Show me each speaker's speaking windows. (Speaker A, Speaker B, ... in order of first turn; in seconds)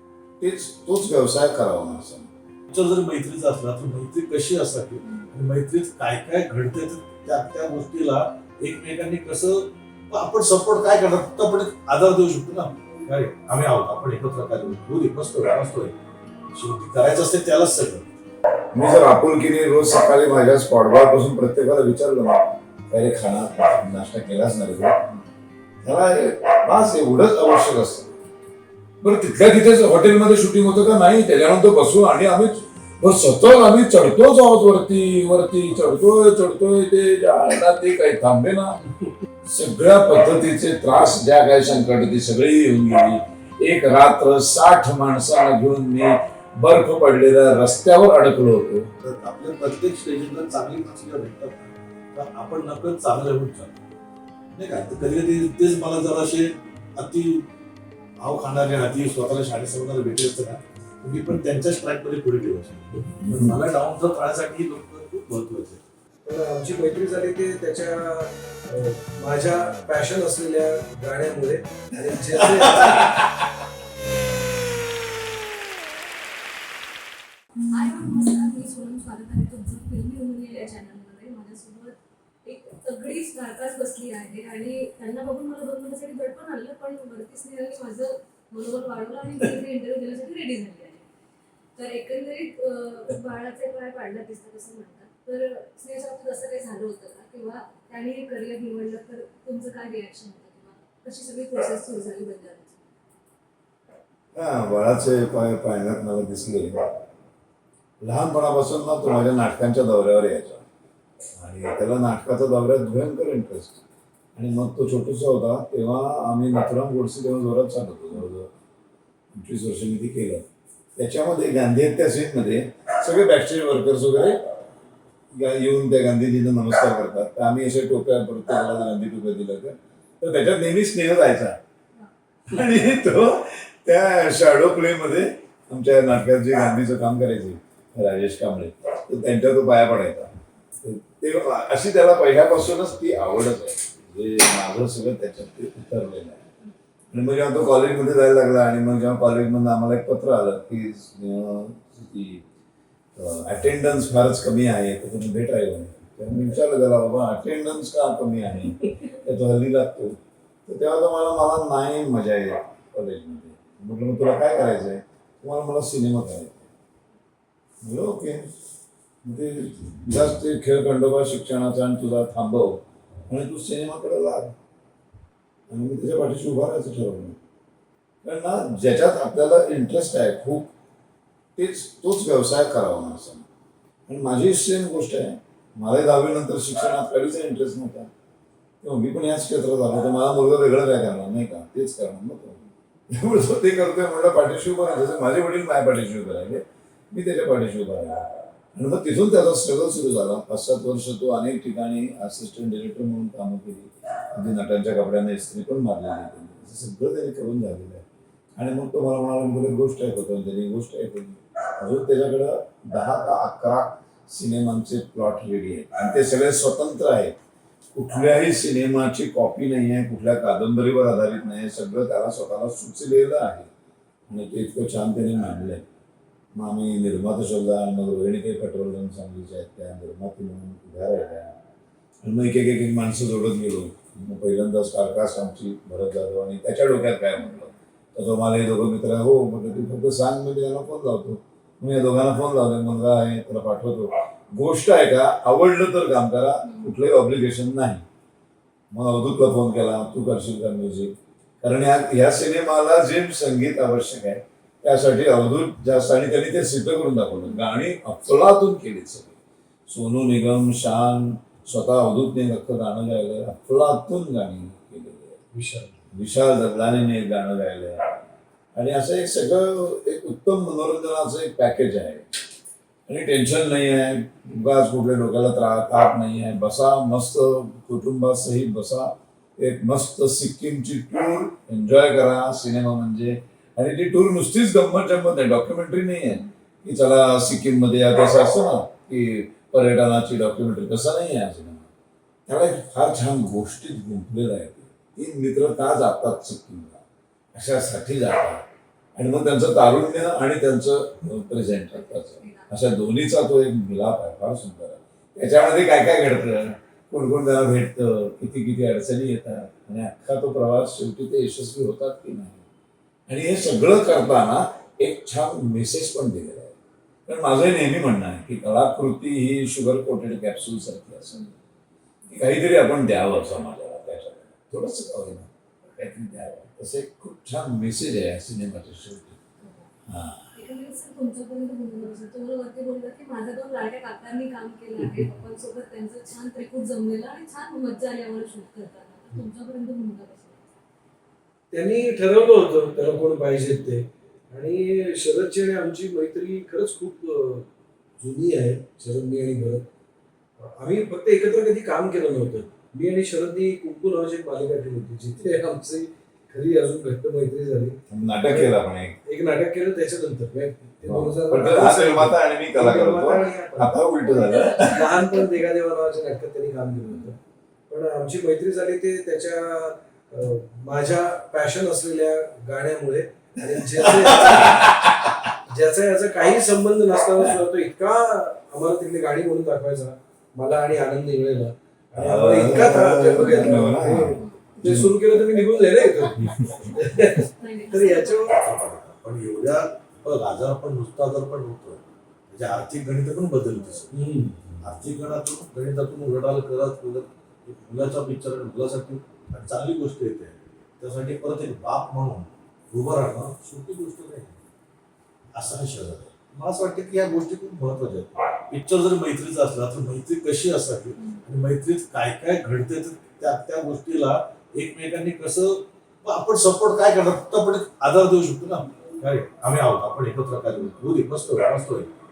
Speaker A: 0.4-2.3, 18.7-24.9, 25.8-28.1, 29.0-38.8, 39.5-48.9, 63.2-63.6, 104.3-106.8, 108.0-110.7, 111.4-113.8, 114.3-118.5, 119.3-124.4, 125.3-131.6, 132.5-140.3, 140.8-146.4, 147.1-152.4, 153.2-166.7, 167.8-168.4, 169.2-174.5, 175.7-177.4, 178.2-180.7, 181.6-183.4, 184.1-188.1, 188.8-192.6, 193.1-208.0, 208.6-217.3, 217.9-223.7, 224.3-225.8, 226.5-231.5, 232.2-248.0, 248.9-259.3, 259.9-265.4, 266.1-268.1, 268.7-272.2, 273.1-291.9, 292.5-297.0, 297.5-298.6, 299.1-312.6, 313.3-316.7, 317.3-321.5, 322.3-329.4, 330.1-330.5, 358.1-359.2, 361.0-365.2, 374.5-375.3, 382.1-385.2, 386.4-386.9
Speaker B: 2.7-15.9, 16.5-18.1, 49.0-53.8, 54.5-57.5, 58.2-65.8, 388.4-394.2, 394.8-404.6, 405.5-422.1
Speaker C: 66.2-73.1, 265.5-265.9, 341.7-349.9, 350.6-364.0, 364.8-367.4, 367.9-374.9, 375.6-388.5, 394.1-394.5
Speaker D: 77.7-91.0, 91.8-102.8, 301.9-302.7, 329.6-329.9, 330.5-340.6, 364.2-365.0, 383.4-383.7, 384.3-384.6, 387.3-388.5